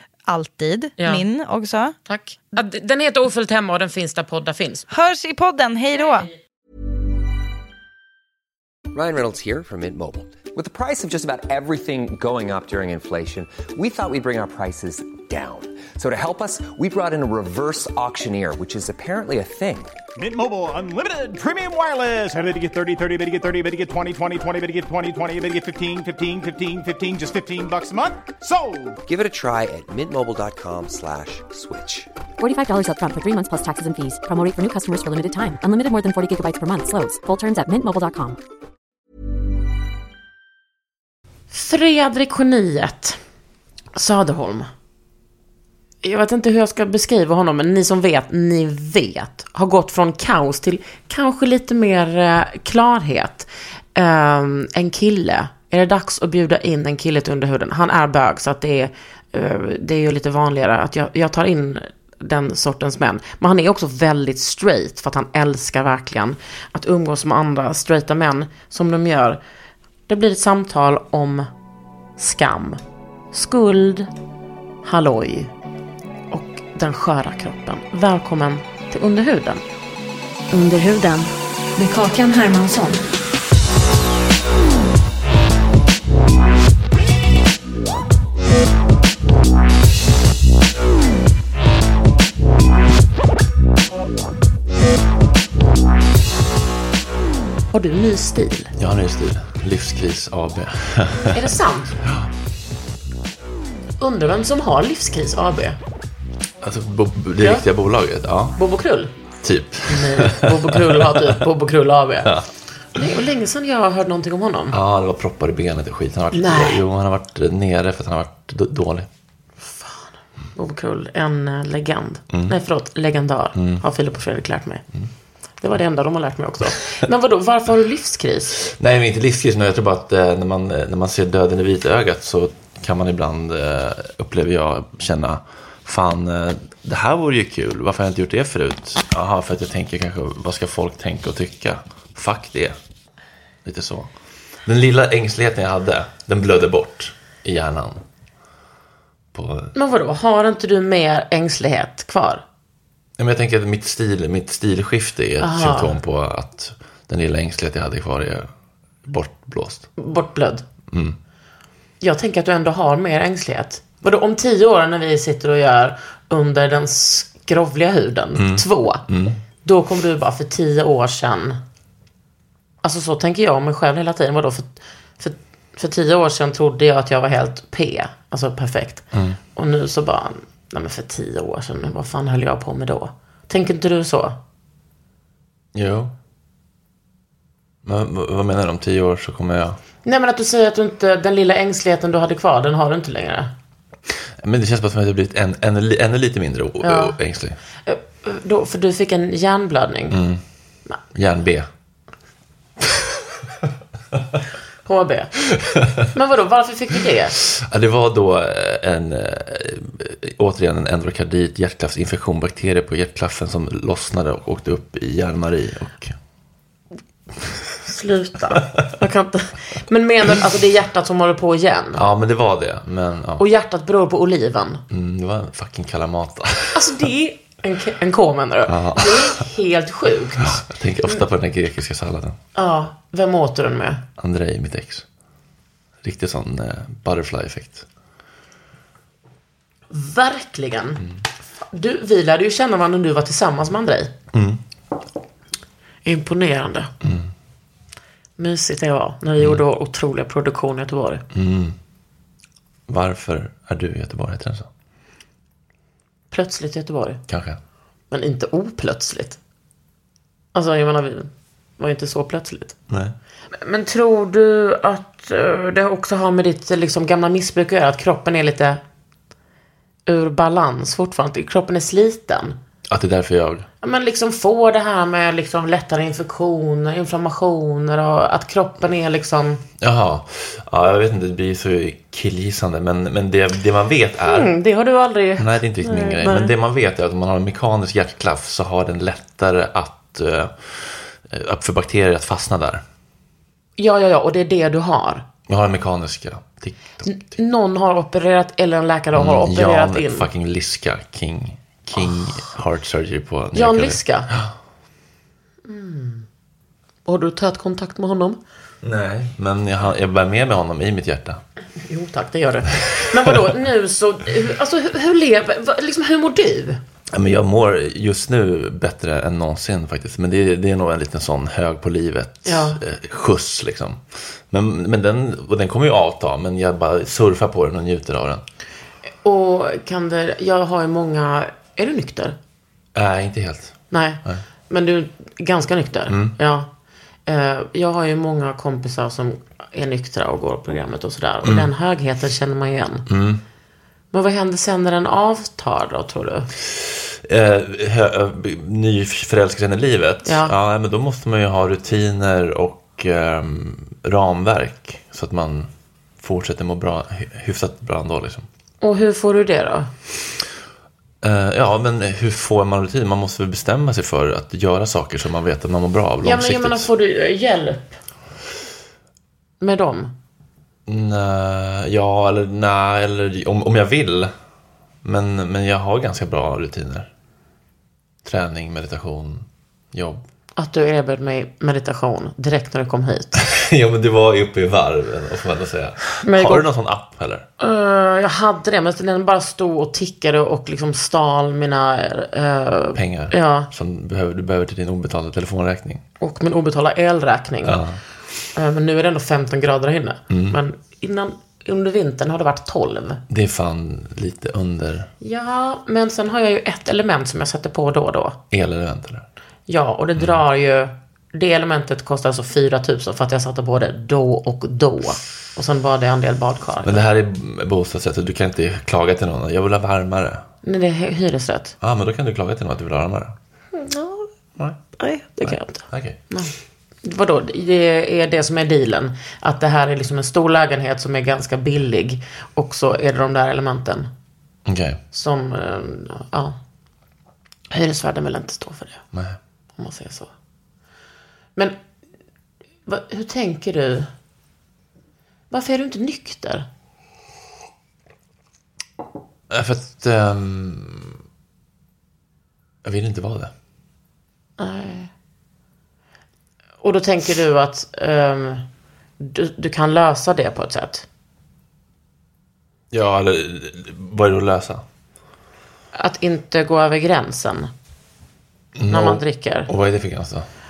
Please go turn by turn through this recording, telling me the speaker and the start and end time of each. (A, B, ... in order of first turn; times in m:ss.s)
0:00.3-0:02.0 A
0:01.0-0:01.2 B
0:02.1-0:04.9 B
0:04.9-0:06.3 A
0:08.9-0:20.0 C
0:20.2-0:29.0 D
0:29.0-0:32.1 C
0:32.4-0:38.4 E
0:41.5-0:43.2 B
0:44.0-0:44.7 B
0:46.0-1:09.4 B
1:10.1-1:11.5 B
1:12.2-1:12.8 B
1:13.3-1:14.1 B
1:14.8-1:15.5 B
1:16.3-1:19.6 B
1:20.6-1:21.2 B
1:21.8-1:23.0 B
1:37.7-1:38.7 B
1:38.8-1:41.5 F
1:41.3-1:42.1 B
1:42.0-1:42.3 F
1:44.0-1:45.8 B
1:46.6-1:48.6 F
1:48.6-1:49.1 B
1:49.4-1:51.4 F
1:49.9-1:52.3 B
1:52.2-1:52.5 F
1:53.0-1:54.8 B
1:54.7-1:59.1 F
1:56.3-1:56.8 B
1:59.6-2:04.8 B
2:02.3-2:02.6 F
2:03.6-2:03.8 F
2:05.6-2:08.6 B
2:08.6-2:22.8 F
2:23.6-2:24.1 F
2:24.6-2:28.0 F
2:29.3-2:29.7 F
2:29.7-2:32.4 B
2:33.2-2:38.5 F
2:35.4-2:35.9 B
2:39.0-2:39.9 F
2:40.0-2:40.6 B
2:40.9-2:41.2 F
2:42.0-2:49.0 B
2:48.3-2:49.4 F
2:49.6-2:51.6 B
2:52.8-3:04.4 B
2:59.1-2:59.4 F
3:05.7-3:06.1 F
3:07.8-3:09.8 F
3:10.0-3:13.5 B
3:14.4-3:17.6 F
3:16.8-3:17.2 B
3:17.8-3:20.2 B
3:20.1-3:20.4 F
3:21.1-3:21.7 F
3:24.8-3:25.3 B
3:25.5-3:26.1 F
3:26.0-3:27.4 B
3:27.4-3:36.2 F
3:37.8-3:42.0 B
3:41.9-3:43.4 F
3:43.4-3:44.8 B
3:44.9-3:47.0 F
3:46.7-3:50.6 B
3:48.7-3:49.4 F
3:50.4-3:52.4 F
3:52.5-3:54.0 B
3:54.2-3:55.0 F
3:56.0-3:57.9 F
3:59.9-4:01.0 B
4:01.7-4:04.1 B
4:04.3-4:04.6 F
4:06.0-4:06.9 B
4:07.0-4:07.3 F
4:08.4-4:11.2 B
4:11.3-4:11.8 F
4:12.9-4:14.7 F
4:16.3-4:17.2 B
4:17.3-4:17.6 F
4:18.1-4:19.4 B
4:20.5-4:22.8 B
4:22.9-4:23.2 F
4:23.6-4:28.8 B
4:30.1-4:32.6 B
4:32.9-4:33.7 F
4:33.8-4:39.6 B
4:39.8-4:44.5 F
4:44.2-4:46.5 B
4:45.4-4:52.8 F
4:53.8-4:55.2 B
4:55.5-4:57.3 F
4:57.1-5:00.3 B
4:59.1-5:04.5 F
5:03.5-5:04.3 B
5:05.6-5:06.2 B
5:07.1-5:08.4 B
5:08.8-5:11.4 F
5:11.8-5:16.8 B
5:12.9-5:13.4 F
5:17.1-5:28.4 F
5:22.4-5:22.8 B
5:29.2-5:32.4 B
5:32.9-5:34.4 F
5:33.9-5:36.7 B
5:36.1-5:36.3 F
5:37.3-5:43.1 B
5:41.4-5:41.7 F
5:43.1-5:43.4 F
5:44.1-5:46.5 B
5:46.7-5:58.4 F
5:50.2-5:50.5 B
5:58.8-5:59.9 B
6:01.2-6:06.9 F
6:06.2-6:08.0 B
6:09.6-6:10.1 B
6:10.9-6:14.3 F
6:15.0-6:17.1 F
6:18.2-6:20.2 F
6:20.6-6:23.4 B
6:23.3-6:27.5 F
6:26.2-6:26.7 B
6:27.6-6:33.7 B
6:32.9-6:36.0 F
6:36.2-6:37.8 B
6:37.6-6:38.0 F
6:38.6-6:43.2 B
6:40.3-6:40.6 F
6:43.3-6:45.1 F
6:45.2-6:48.4 B
6:48.5-6:49.2 F
6:49.7-6:57.0 B
6:56.8-7:00.4 F
7:00.6-7:01.8 B
7:01.8-7:03.4 F
7:03.7-7:04.3 B
7:04.6-7:06.2 F
7:05.0-7:14.1 B
7:14.6-7:15.0 F
7:15.1-7:16.6 B
7:17.7-7:19.0 B
7:19.1-7:19.4 F
7:19.8-7:20.3 B
7:22.9-7:24.1 B
7:25.5-7:26.6 B
7:29.5-7:31.2 F
7:32.8-7:33.5 F
7:34.6-7:35.1 B
7:36.8-7:38.6 B
7:39.2-7:41.1 B
7:42.9-7:44.8 F
7:45.9-7:47.7 B
7:48.8-7:50.5 F
7:48.9-7:49.7 B